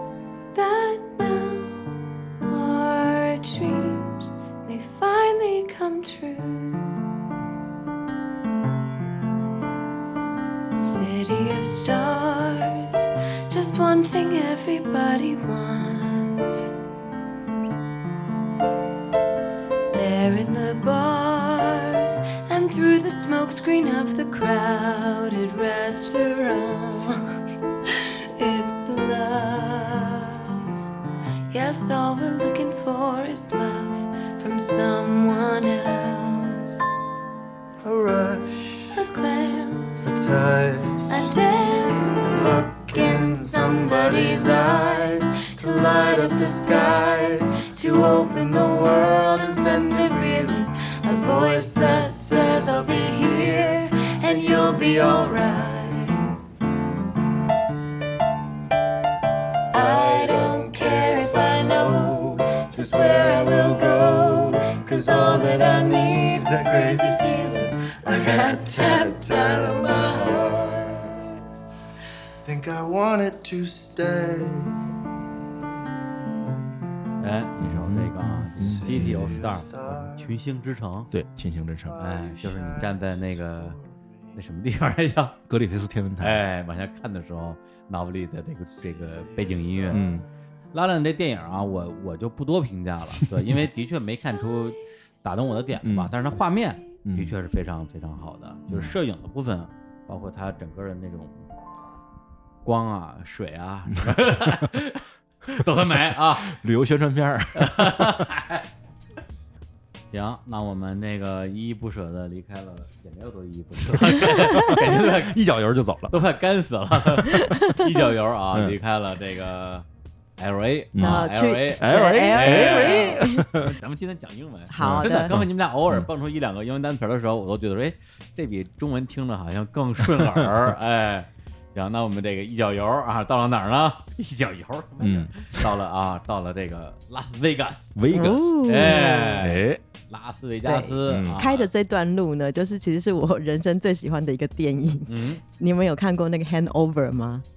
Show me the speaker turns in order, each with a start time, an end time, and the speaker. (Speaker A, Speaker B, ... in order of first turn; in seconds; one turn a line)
Speaker A: 0.5-1.9
Speaker A: 2.4-7.0
Speaker A: 10.7-16.7
Speaker A: 19.9-27.4
Speaker A: 28.4-30.7
Speaker A: 31.5-36.8
Speaker B: 37.8-39.1
Speaker A: 38.9-40.1
Speaker B: 40.0-41.4
Speaker A: 41.1-56.3
Speaker B: 42.2-53.8
Speaker B: 54.4-55.8
Speaker A: 59.7-70.7
Speaker B: 59.7-71.2
Speaker B: 72.4-74.9
Speaker C: 77.2-81.1
Speaker D: 77.6-79.5
Speaker B: 78.6-80.4
Speaker D: 81.1-82.0
Speaker B: 81.9-84.4
Speaker C: 82.0-83.8
Speaker C: 84.4-85.4
Speaker D: 85.5-86.4
Speaker C: 86.2-90.1
Speaker B: 88.8-90.2
Speaker D: 89.9-90.2
Speaker C: 90.7-101.5
Speaker D: 95.8-96.1
Speaker D: 97.0-97.4
Speaker D: 98.7-99.0
Speaker C: 102.6-106.6
Speaker D: 104.0-104.7
Speaker D: 106.4-108.2
Speaker C: 107.6-108.6
Speaker C: 110.1-115.4
Speaker D: 113.9-116.2
Speaker C: 116.1-119.8
Speaker C: 120.4-138.0
Speaker D: 120.9-123.7
Speaker E: 121.0-123.5
Speaker E: 124.7-125.3
Speaker D: 124.8-126.1
Speaker D: 130.0-130.5
Speaker D: 135.0-135.7
Speaker D: 138.0-139.8
Speaker E: 138.1-139.4
Speaker C: 138.6-141.7
Speaker E: 140.7-147.4
Speaker D: 141.1-141.4
Speaker C: 145.1-145.4